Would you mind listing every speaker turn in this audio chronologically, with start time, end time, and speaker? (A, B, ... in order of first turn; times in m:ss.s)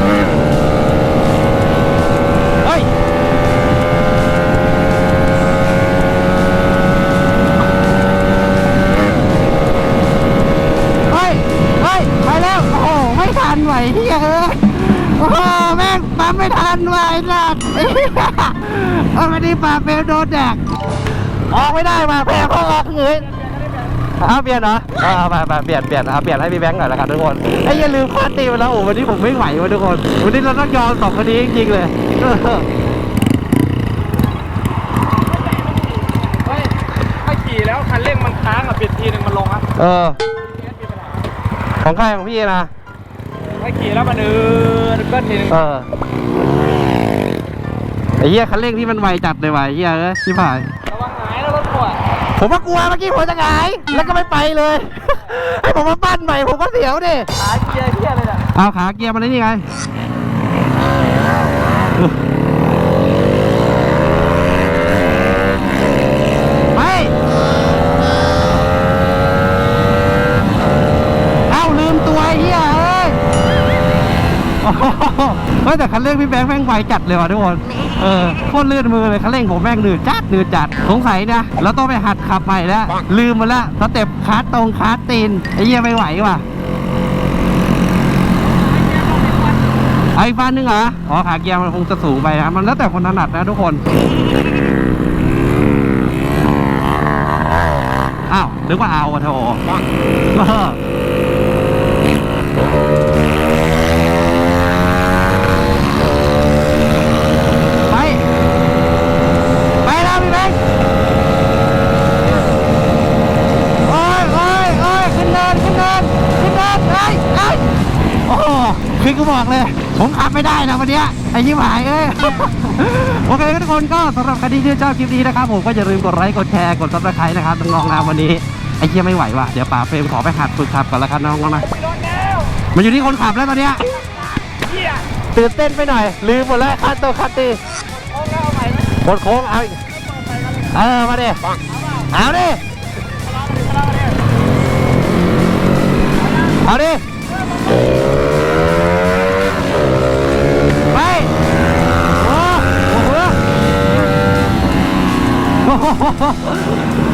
0:02.6-0:02.9 A
0:11.1-0:20.6 A
0:21.5-0:23.4 A
0:24.2-0:32.7 A
0:35.6-0:39.7 B
0:39.8-0:40.2 A
0:40.9-0:41.1 B
0:41.8-0:42.7 A
0:43.6-0:45.5 B
0:45.5-0:45.9 A
0:48.2-0:50.7 A
0:50.9-0:52.0 B
0:52.4-0:57.3 A
0:57.4-0:58.4 B
0:58.5-0:59.7 A
1:06.7-1:07.2 A
1:11.5-1:13.2 A
1:14.6-1:26.4 A
1:30.2-1:33.8 A
1:38.3-1:39.6 A
1:40.3-1:40.8 A
1:47.9-1:48.2 A
1:49.8-1:50.6 A
1:53.9-1:57.7 A
1:58.3-2:11.7 A
2:11.7-2:12.6 B
2:12.6-2:14.0 A
2:14.6-2:15.0 B
2:15.3-2:17.6 A
2:18.1-2:18.9 B
2:18.9-2:19.8 A
2:20.1-2:20.7 B
2:20.7-2:21.4 A
2:22.1-2:22.6 A
2:23.3-2:24.2 B
2:26.5-2:27.0 A
2:30.9-2:31.3 A
2:32.2-2:33.4 A
2:35.6-2:36.9 A